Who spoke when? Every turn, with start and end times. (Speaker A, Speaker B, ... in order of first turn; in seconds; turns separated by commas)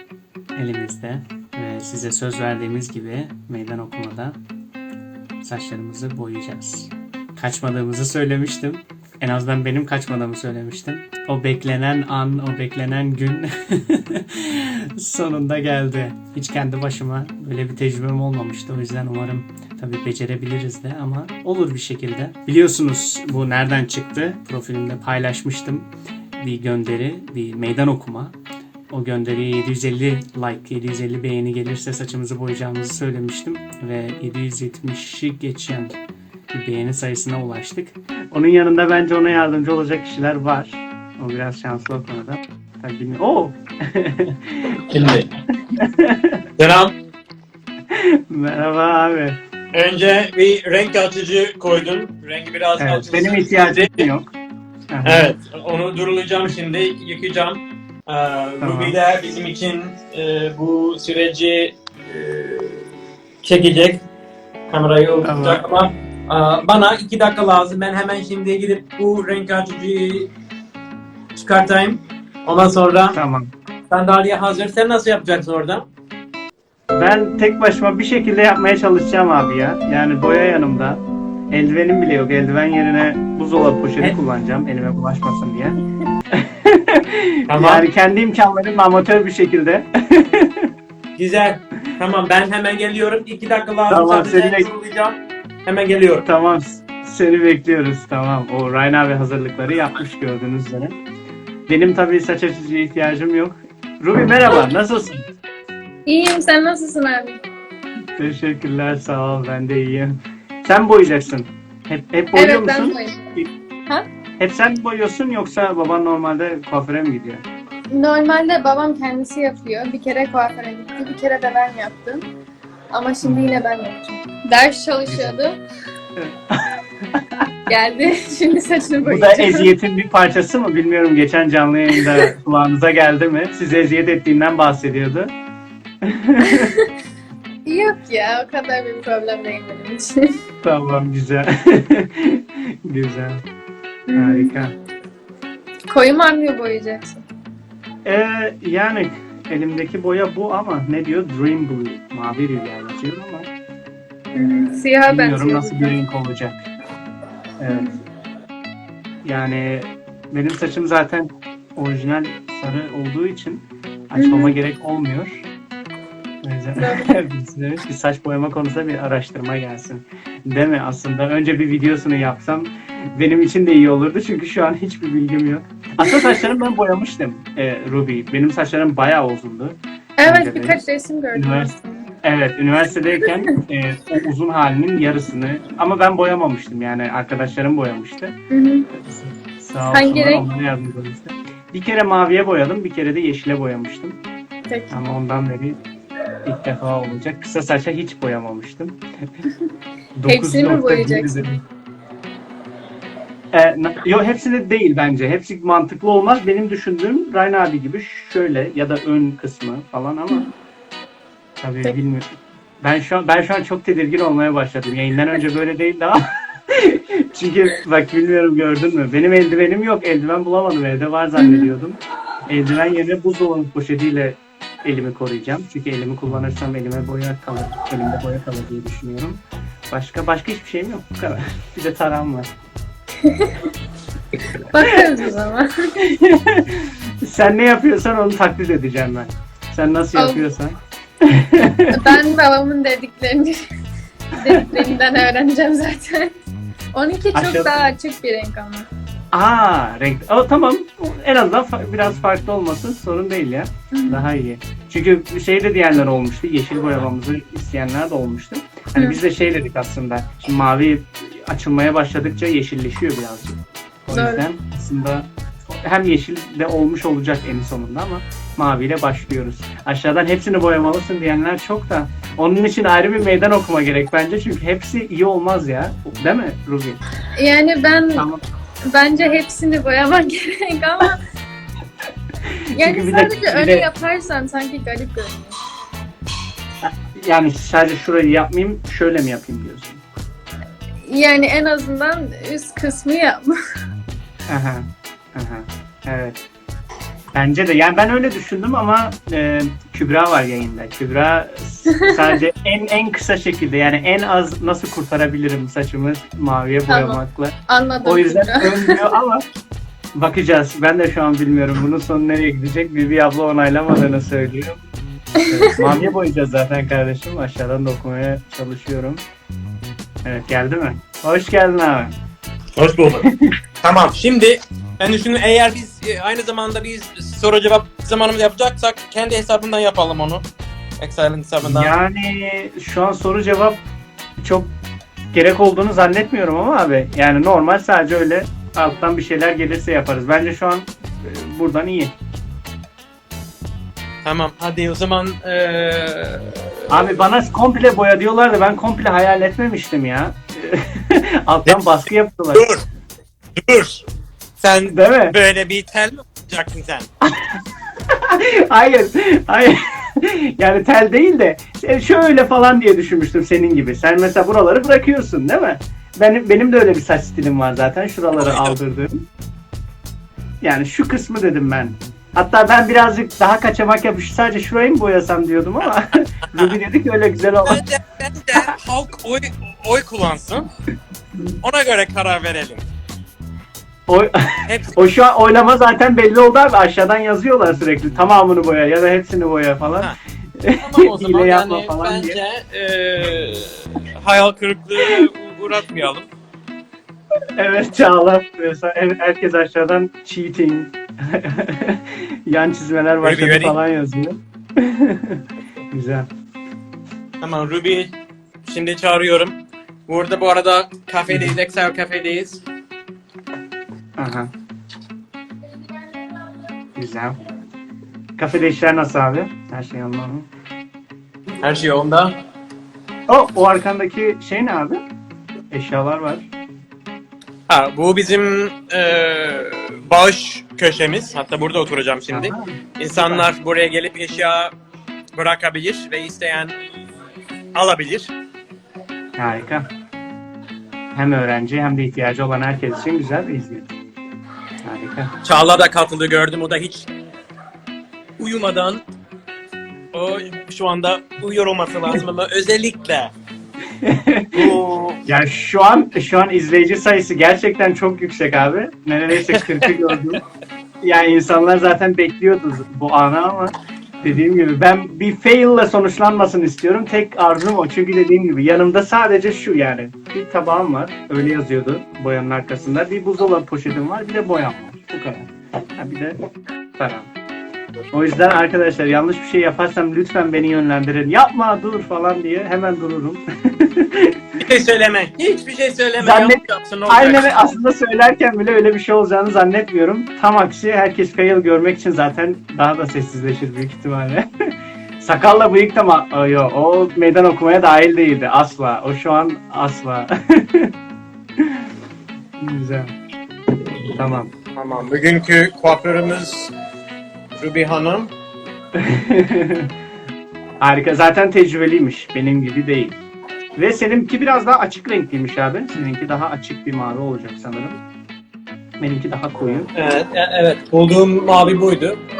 Speaker A: 0.6-4.4, Speaker A: 5.4-28.3, Speaker A: 28.9-36.0, Speaker A: 36.5-45.2, Speaker B: 44.8-45.3, Speaker A: 45.7-46.4, Speaker B: 46.6-46.9, Speaker A: 47.9-49.4, Speaker B: 49.7-54.1, Speaker A: 52.8-54.3, Speaker A: 54.9-55.3, Speaker B: 55.0-62.9, Speaker A: 58.6-59.0, Speaker B: 63.4-64.0, Speaker B: 64.7-70.3, Speaker A: 65.2-65.7, Speaker B: 71.3-73.2, Speaker A: 73.1-73.5, Speaker B: 73.9-75.9, Speaker A: 76.9-85.8, Speaker A: 86.3-90.7, Speaker B: 87.5-87.8, Speaker B: 91.2-96.3, Speaker A: 93.9-94.7, Speaker A: 96.2-101.0, Speaker A: 101.7-105.3, Speaker C: 106.1-107.4, Speaker A: 108.2-113.5, Speaker C: 112.3-113.3, Speaker A: 114.4-117.4, Speaker C: 117.9-122.3, Speaker C: 122.9-125.6, Speaker A: 123.2-123.6, Speaker A: 125.1-125.4, Speaker A: 126.2-127.5, Speaker C: 127.7-129.7, Speaker A: 129.0-135.3, Speaker A: 136.0-136.7, Speaker C: 136.4-136.9, Speaker C: 137.7-140.4, Speaker A: 140.6-143.4, Speaker C: 144.1-144.5, Speaker A: 144.2-144.7, Speaker C: 145.9-147.2, Speaker A: 148.1-153.5, Speaker C: 154.3-156.0, Speaker A: 154.3-156.5, Speaker A: 157.6-157.9, Speaker C: 157.7-158.0, Speaker A: 159.2-165.5, Speaker C: 164.2-164.6, Speaker A: 166.4-180.8, Speaker C: 166.8-167.1, Speaker C: 176.0-176.5, Speaker C: 180.2-182.1, Speaker A: 181.3-188.3, Speaker C: 183.2-183.5, Speaker C: 188.5-188.9, Speaker A: 188.9-194.2, Speaker C: 189.9-190.4, Speaker C: 194.7-195.0, Speaker A: 194.9-195.8, Speaker A: 196.4-199.0, Speaker A: 200.2-201.6, Speaker C: 200.3-201.5, Speaker A: 203.5-210.5, Speaker A: 211.6-212.3, Speaker A: 212.8-232.5, Speaker C: 221.4-221.7, Speaker C: 233.2-233.7, Speaker C: 234.5-235.9, Speaker A: 236.0-242.2, Speaker C: 240.1-240.4, Speaker C: 241.9-243.6, Speaker C: 244.3-246.3, Speaker A: 244.5-244.9, Speaker C: 246.9-248.9, Speaker A: 247.3-247.8, Speaker A: 249.3-277.0, Speaker C: 253.9-254.2, Speaker C: 264.1-264.4, Speaker C: 277.4-278.2, Speaker A: 278.1-278.4, Speaker C: 278.9-281.2, Speaker A: 282.7-283.9, Speaker C: 282.8-285.6, Speaker A: 286.8-290.0, Speaker C: 291.1-293.6, Speaker A: 294.5-296.4, Speaker A: 297.3-307.5, Speaker C: 306.9-309.1, Speaker A: 308.0-309.4, Speaker A: 310.1-314.8, Speaker A: 315.4-319.2, Speaker A: 320.2-322.1, Speaker B: 322.7-323.3, Speaker A: 323.2-323.5, Speaker B: 323.8-330.4, Speaker B: 331.0-331.9, Speaker A: 331.6-333.8, Speaker A: 334.4-334.7, Speaker A: 335.3-342.1, Speaker B: 344.2-347.1, Speaker A: 346.9-352.7, Speaker B: 352.5-352.8, Speaker B: 353.6-354.0, Speaker B: 354.6-357.1, Speaker A: 354.9-355.3, Speaker A: 357.2-357.6, Speaker A: 358.1-369.2, Speaker B: 368.4-368.8, Speaker A: 370.6-377.8, Speaker B: 377.6-380.7, Speaker B: 381.6-382.8, Speaker A: 384.1-392.4, Speaker B: 384.7-385.0, Speaker B: 390.8-396.3, Speaker A: 397.6-406.3, Speaker B: 403.2-403.8, Speaker B: 407.4-412.6, Speaker A: 411.3-411.6, Speaker A: 414.2-414.5, Speaker A: 416.9-417.4, Speaker A: 418.4-420.5, Speaker B: 421.6-422.4, Speaker A: 423.3-425.0, Speaker A: 425.7-426.5, Speaker B: 427.7-434.7, Speaker A: 432.3-433.5, Speaker B: 435.4-436.7, Speaker B: 437.7-438.3, Speaker A: 439.4-439.9, Speaker A: 441.1-443.9, Speaker A: 444.8-445.3, Speaker B: 445.4-447.1, Speaker B: 448.4-449.0, Speaker B: 450.1-453.3, Speaker A: 454.0-454.7, Speaker B: 454.5-455.2, Speaker A: 455.2-460.4, Speaker B: 459.4-460.4, Speaker A: 461.0-477.3, Speaker A: 478.1-484.4, Speaker B: 484.6-487.7, Speaker A: 486.2-500.9, Speaker A: 501.6-501.9, Speaker A: 502.6-503.1, Speaker A: 504.1-504.5, Speaker B: 504.7-506.7, Speaker B: 507.6-508.3, Speaker A: 508.9-509.9, Speaker A: 510.8-513.1, Speaker A: 513.8-518.0, Speaker A: 519.0-519.9, Speaker B: 519.9-522.2